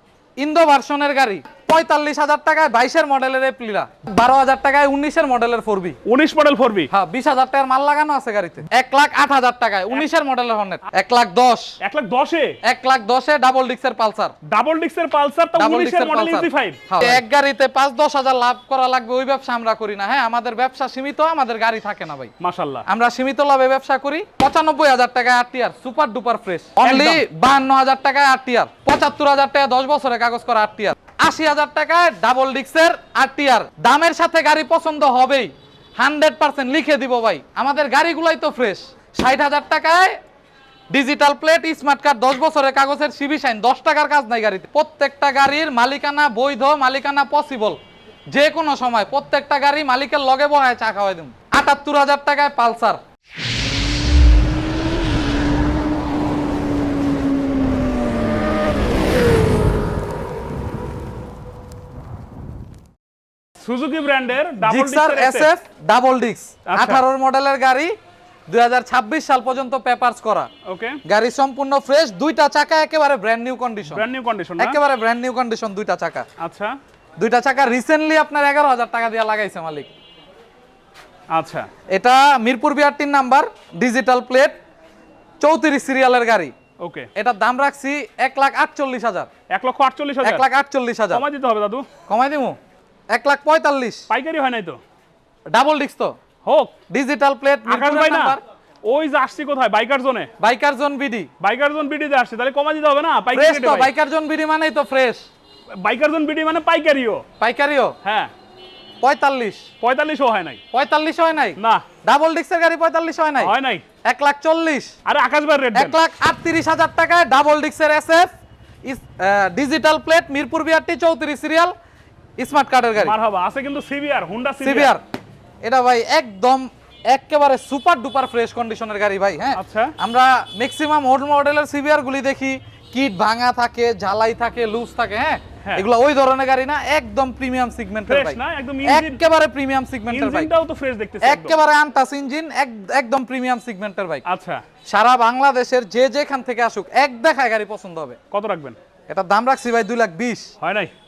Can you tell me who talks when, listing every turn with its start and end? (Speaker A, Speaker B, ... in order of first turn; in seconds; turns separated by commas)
Speaker A: 0.4-6.0, Speaker B: 6.1-6.9, Speaker A: 6.9-11.7, Speaker B: 11.8-12.6, Speaker A: 12.6-14.3, Speaker B: 14.4-17.2, Speaker A: 15.6-22.3, Speaker B: 22.4-22.9, Speaker A: 22.9-40.2, Speaker B: 26.8-27.2, Speaker A: 40.9-47.8, Speaker A: 48.3-53.0, Speaker B: 63.6-65.5, Speaker A: 64.6-67.9, Speaker B: 66.7-67.0, Speaker A: 68.5-70.5, Speaker B: 70.7-71.0, Speaker A: 71.0-74.0, Speaker B: 73.9-74.8, Speaker A: 74.6-76.3, Speaker B: 76.4-76.8, Speaker A: 77.2-79.9, Speaker B: 81.3-81.7, Speaker A: 81.9-84.6, Speaker A: 85.4-86.5, Speaker B: 86.8-87.1, Speaker A: 87.2-89.3, Speaker B: 89.5-90.5, Speaker A: 90.2-91.2, Speaker B: 91.1-91.9, Speaker A: 92.1-92.6, Speaker A: 93.1-94.1, Speaker B: 94.1-94.8, Speaker A: 95.5-96.2, Speaker B: 96.5-96.7, Speaker A: 96.9-98.4, Speaker B: 97.7-100.3, Speaker A: 100.4-101.3, Speaker B: 101.4-103.9, Speaker A: 103.3-105.2, Speaker B: 105.8-107.2, Speaker A: 107.4-108.0, Speaker B: 108.0-108.3, Speaker A: 109.0-109.7, Speaker B: 109.8-110.6, Speaker A: 110.7-113.5, Speaker B: 111.6-111.8, Speaker B: 113.4-113.8, Speaker A: 114.0-114.9, Speaker B: 115.0-116.0, Speaker A: 115.7-118.3, Speaker A: 118.8-121.7, Speaker A: 122.4-123.2, Speaker B: 123.0-124.9, Speaker A: 124.6-125.0, Speaker A: 125.6-140.5, Speaker B: 129.6-129.9, Speaker B: 138.1-139.2, Speaker B: 140.1-141.6, Speaker A: 141.2-144.2, Speaker B: 144.3-144.6, Speaker A: 144.9-148.2, Speaker B: 148.3-148.8, Speaker A: 149.1-150.5, Speaker B: 150.6-150.9